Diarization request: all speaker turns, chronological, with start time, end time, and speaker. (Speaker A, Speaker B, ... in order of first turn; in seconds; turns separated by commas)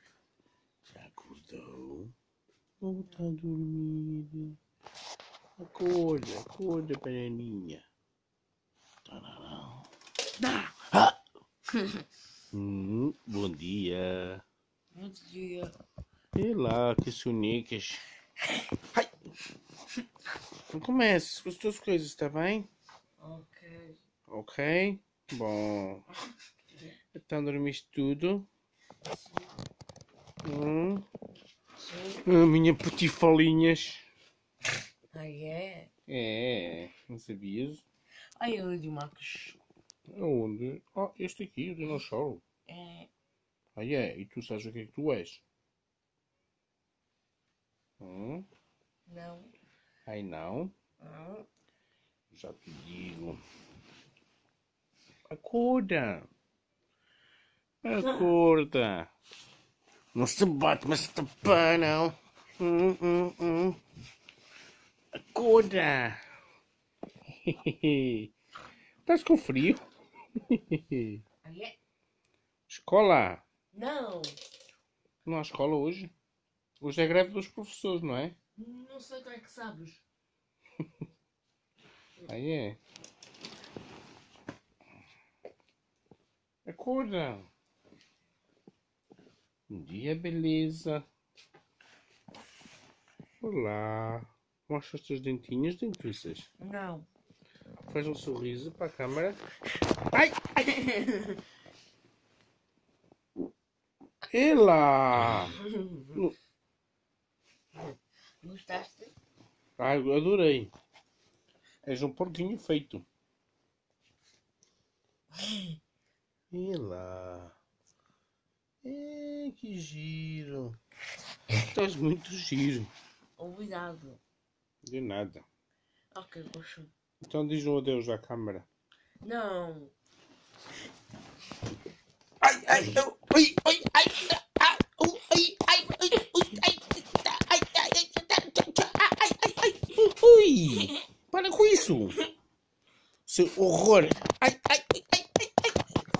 Speaker A: 0.9-2.1, Speaker A: 2.8-4.6, Speaker A: 5.6-7.8, Speaker A: 9.1-9.9, Speaker B: 10.4-11.1, Speaker A: 12.5-14.4, Speaker B: 14.9-15.8, Speaker A: 16.3-18.0, Speaker A: 20.7-22.7, Speaker B: 23.2-24.0, Speaker A: 24.3-26.0, Speaker A: 27.1-28.5, Speaker B: 29.1-29.5, Speaker A: 30.4-31.0, Speaker B: 31.8-32.2, Speaker A: 32.2-34.1, Speaker B: 35.1-35.9, Speaker A: 36.1-37.8, Speaker B: 38.4-39.6, Speaker A: 40.1-42.4, Speaker B: 42.6-43.1, Speaker A: 43.8-45.4, Speaker A: 48.0-48.5, Speaker B: 49.1-49.5, Speaker A: 50.0-50.7, Speaker B: 51.0-51.5, Speaker A: 52.3-53.4, Speaker A: 55.3-56.3, Speaker A: 57.8-59.1, Speaker A: 60.1-63.8, Speaker A: 65.2-66.2, Speaker A: 67.4-68.3, Speaker A: 69.0-71.2, Speaker B: 71.4-71.7, Speaker A: 72.7-73.4, Speaker B: 73.7-74.3, Speaker A: 75.2-76.1, Speaker A: 76.8-78.4, Speaker B: 78.5-80.0, Speaker A: 82.2-82.8, Speaker A: 86.7-87.5, Speaker A: 89.7-91.0, Speaker A: 93.4-96.5, Speaker B: 96.6-97.1, Speaker A: 97.9-99.4, Speaker A: 100.1-100.7, Speaker B: 100.6-101.4, Speaker A: 104.3-105.6, Speaker B: 105.4-106.2, Speaker B: 107.8-109.1, Speaker A: 109.8-110.7, Speaker A: 111.8-113.0, Speaker B: 115.4-115.8, Speaker A: 116.5-117.5, Speaker A: 118.8-120.8, Speaker A: 121.6-122.9, Speaker B: 123.4-124.2, Speaker A: 124.8-125.5, Speaker B: 126.1-126.9, Speaker A: 127.2-128.7, Speaker B: 129.2-129.9, Speaker A: 132.4-142.2, Speaker B: 132.7-133.0, Speaker A: 143.3-145.7